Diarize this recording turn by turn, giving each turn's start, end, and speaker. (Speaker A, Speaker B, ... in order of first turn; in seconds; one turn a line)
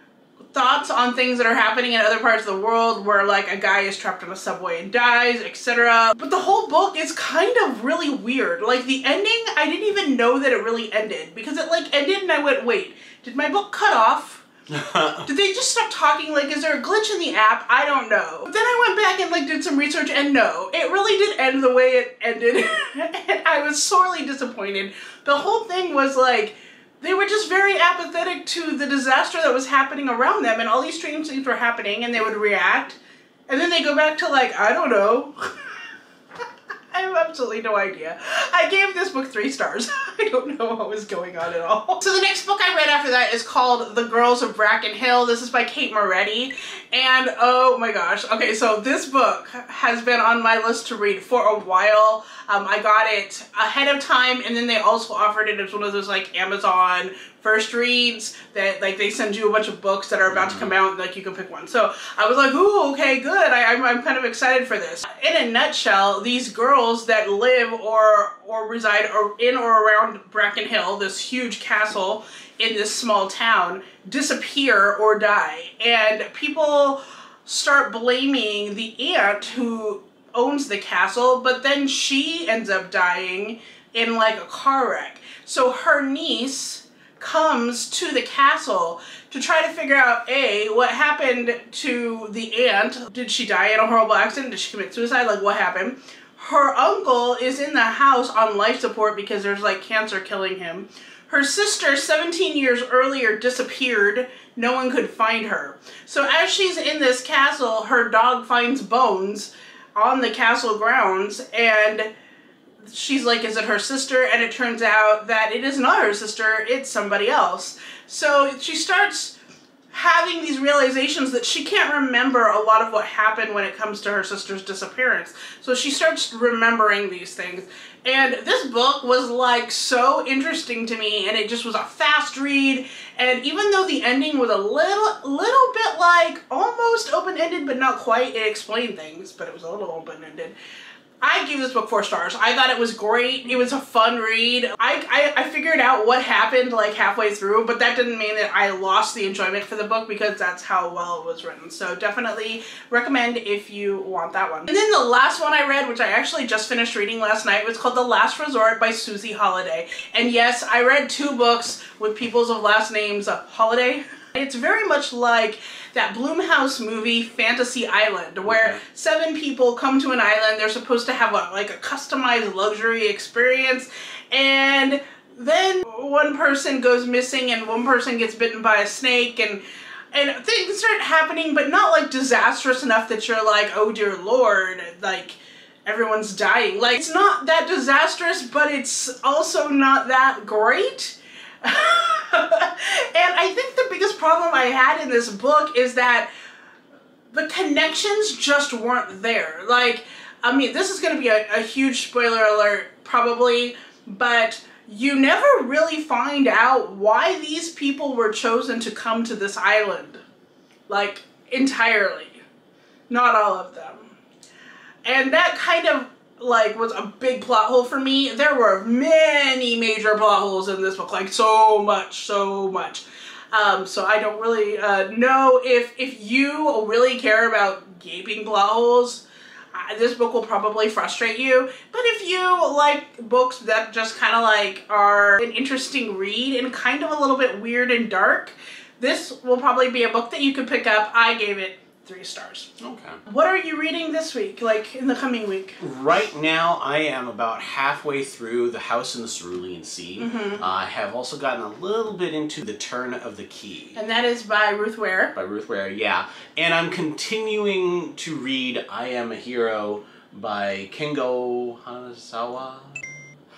Speaker A: 0.5-14.4
Speaker B: 14.7-15.3
Speaker A: 15.2-33.0
Speaker A: 33.5-35.7
Speaker A: 36.9-112.1
Speaker B: 60.3-60.7
Speaker A: 112.8-119.3
Speaker A: 119.9-140.6
Speaker A: 141.2-179.6
Speaker B: 168.5-168.8
Speaker A: 180.1-196.3
Speaker A: 197.3-210.2
Speaker A: 210.9-212.4
Speaker A: 213.1-214.2
Speaker A: 215.1-229.2
Speaker A: 229.7-242.7
Speaker B: 242.8-243.2
Speaker A: 243.3-245.8
Speaker B: 245.8-254.0
Speaker A: 250.2-250.6
Speaker A: 254.0-255.3
Speaker B: 255.3-263.2